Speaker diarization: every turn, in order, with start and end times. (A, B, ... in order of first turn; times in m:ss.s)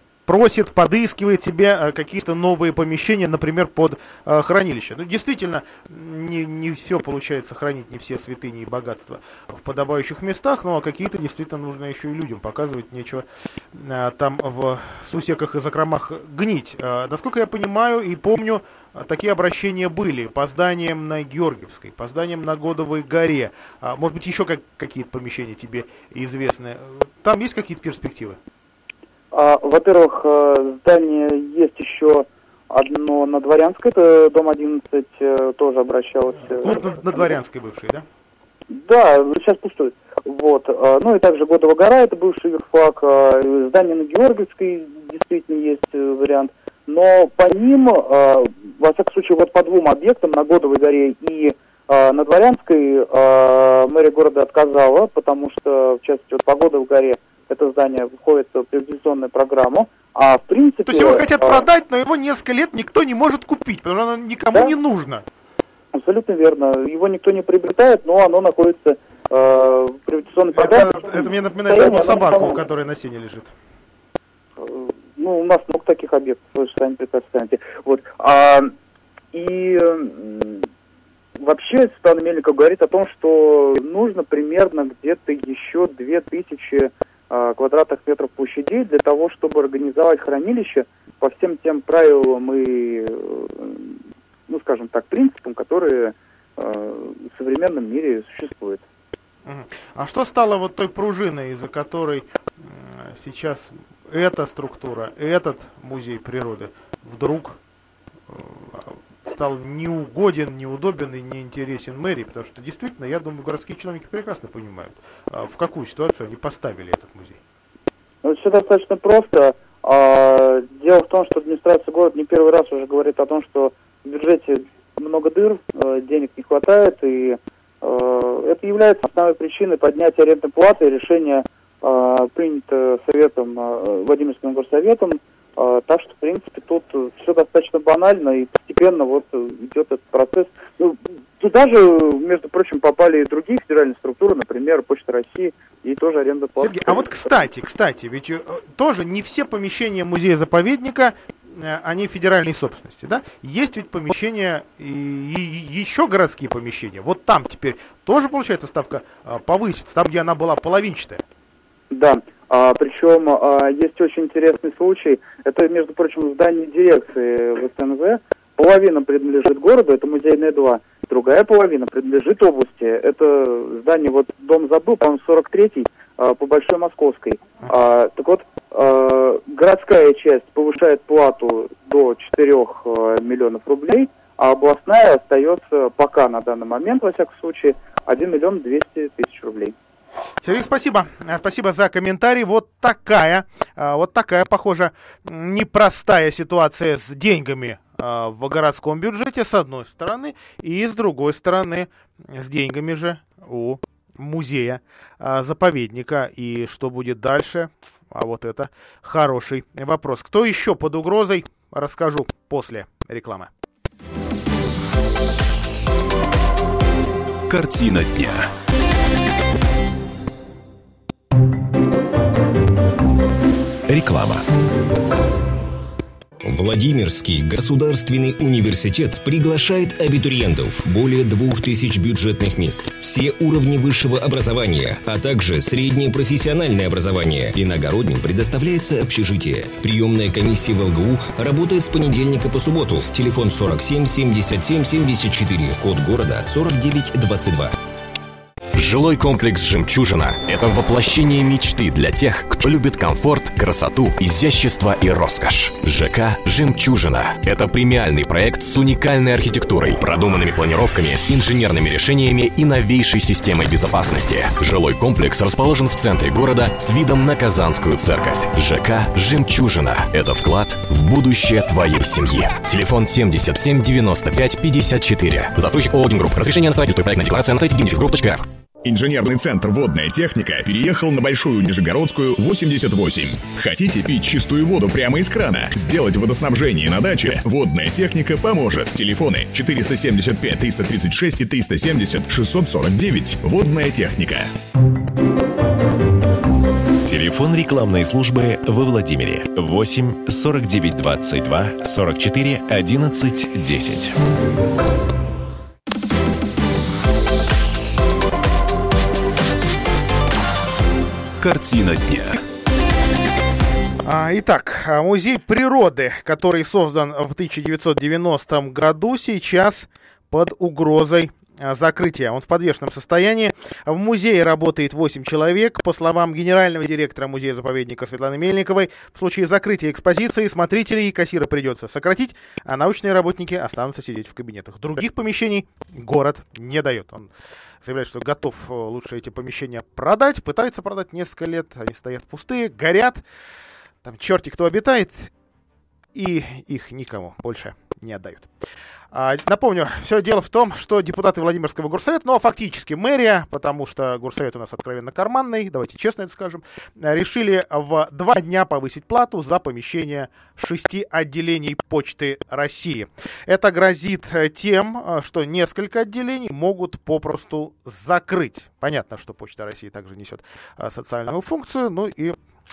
0:00.3-0:28.4 A
0:29.3-0:36.9 B
0:36.6-0:38.0 A
0:38.7-1:01.6 B
1:00.9-1:05.2 A
1:05.9-1:12.6 B
1:10.5-1:13.5 A
1:14.6-1:18.7 B
1:19.3-1:20.7 B
1:21.4-1:38.8 B
1:39.5-1:47.6 A
1:48.3-1:57.4 A
1:58.2-2:27.0 B
2:26.6-2:41.2 A
2:41.9-3:09.8 B
3:10.4-3:33.5 A
3:37.5-3:38.5 C
3:43.9-3:44.4 D
3:46.4-4:07.8 E
4:08.7-4:38.5 D
4:38.8-4:54.5 F
4:57.0-5:04.2 G
5:11.4-5:12.4 C
5:14.0-5:37.3 A
5:37.8-5:43.2 A
5:44.0-5:45.3 A
5:46.2-5:48.5 A
5:49.1-6:12.4 A